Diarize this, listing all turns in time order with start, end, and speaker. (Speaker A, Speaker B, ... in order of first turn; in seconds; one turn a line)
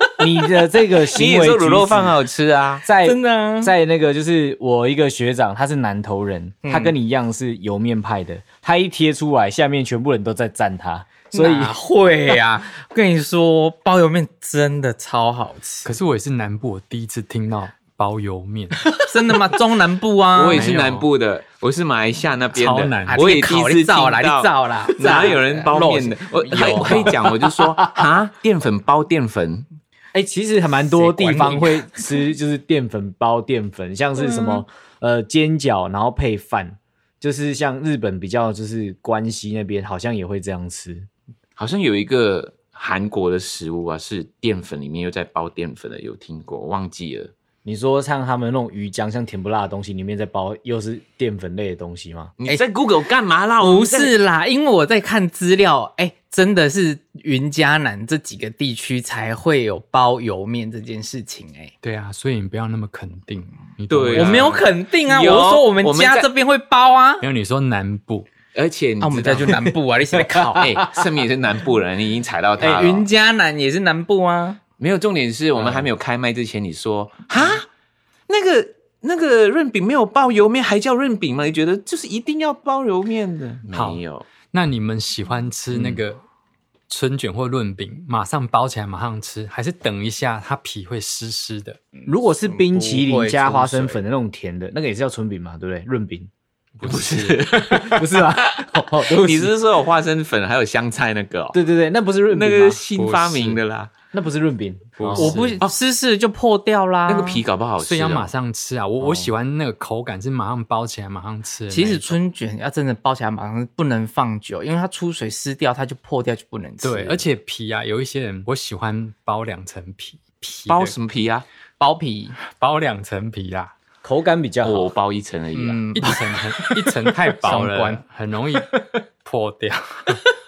Speaker A: 0.2-2.2
Speaker B: 1.0-2.9
Speaker A: 2.8-11.8
Speaker C: 3.0-3.7
Speaker C: 6.6-7.0
Speaker C: 11.3-15.9
Speaker D: 15.8-18.9
Speaker C: 19.0-20.7
Speaker B: 20.3-29.7
Speaker D: 20.5-21.1
Speaker D: 22.6-23.3
Speaker C: 22.9-27.1
Speaker D: 26.6-27.0
Speaker A: 27.1-27.9
Speaker A: 30.1-41.1
Speaker C: 30.9-32.0
Speaker C: 34.3-34.6
Speaker B: 41.6-47.3
Speaker A: 47.6-52.3
Speaker B: 52.4-54.1
Speaker C: 53.6-61.7
Speaker D: 61.8-64.7
Speaker B: 63.9-66.3
Speaker C: 64.1-67.2
Speaker D: 67.2-68.3
Speaker B: 68.5-69.7
Speaker C: 69.0-70.8
Speaker B: 70.5-73.1
Speaker C: 72.6-74.6
Speaker B: 74.8-77.7
Speaker B: 78.3-84.3
Speaker D: 83.7-86.2
Speaker D: 86.9-91.8
Speaker C: 92.0-94.0
Speaker A: 92.1-96.3
Speaker D: 96.8-97.4
Speaker B: 96.8-101.6
Speaker A: 97.6-99.5
Speaker A: 101.5-102.8
Speaker B: 102.3-103.9
Speaker D: 103.0-103.6
Speaker A: 104.1-105.5
Speaker D: 105.0-105.6
Speaker C: 105.2-107.4
Speaker B: 107.1-108.3
Speaker D: 107.8-112.2
Speaker A: 109.0-109.3
Speaker C: 111.7-117.2
Speaker D: 116.8-121.0
Speaker B: 120.7-121.5
Speaker C: 121.8-122.4
Speaker D: 122.5-123.7
Speaker A: 124.0-124.9
Speaker B: 124.6-125.8
Speaker C: 125.5-128.0
Speaker D: 126.0-130.2